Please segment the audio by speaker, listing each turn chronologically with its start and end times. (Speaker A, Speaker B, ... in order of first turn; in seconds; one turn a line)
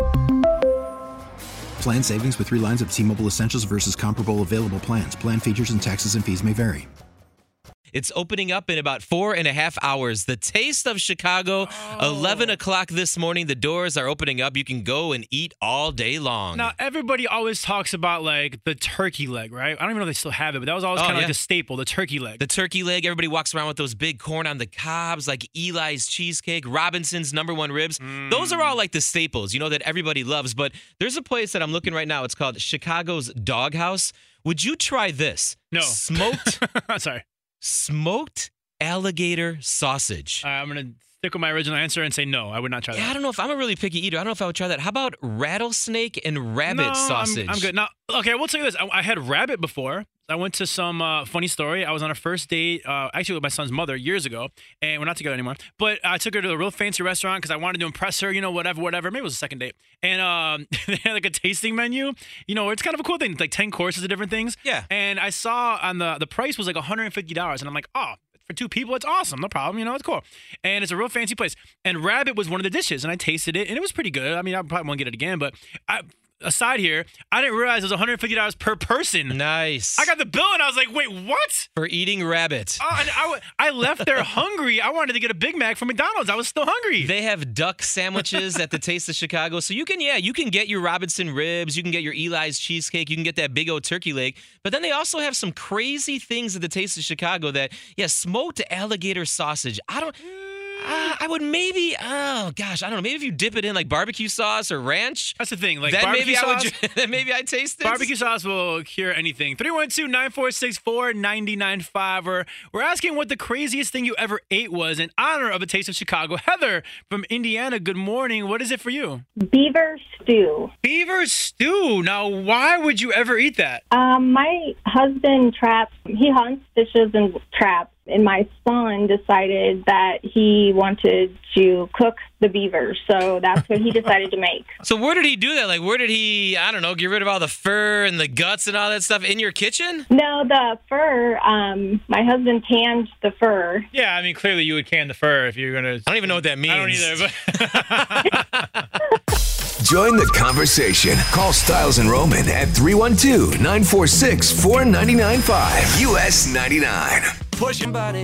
Speaker A: 1.8-6.8
Speaker B: 7.9-16.7
Speaker C: 11.6-12.6
Speaker C: 16.5-22.4
Speaker B: 20.9-21.3
Speaker B: 22.4-36.6
Speaker C: 28.0-28.8
Speaker C: 35.7-37.2
Speaker B: 37.6-40.4
Speaker C: 40.4-43.1
Speaker B: 42.9-47.7
Speaker C: 46.7-79.4
Speaker B: 79.3-80.1
Speaker C: 80.0-81.7
Speaker B: 81.8-83.0
Speaker C: 82.8-87.1
Speaker B: 87.0-108.1
Speaker C: 105.4-106.7
Speaker C: 107.8-119.2
Speaker D: 119.4-120.7
Speaker C: 120.8-123.8
Speaker D: 123.9-134.7
Speaker B: 134.8-140.1
Speaker D: 140.1-143.9
Speaker C: 143.9-148.4
Speaker B: 146.1-148.3
Speaker E: 149.8-157.4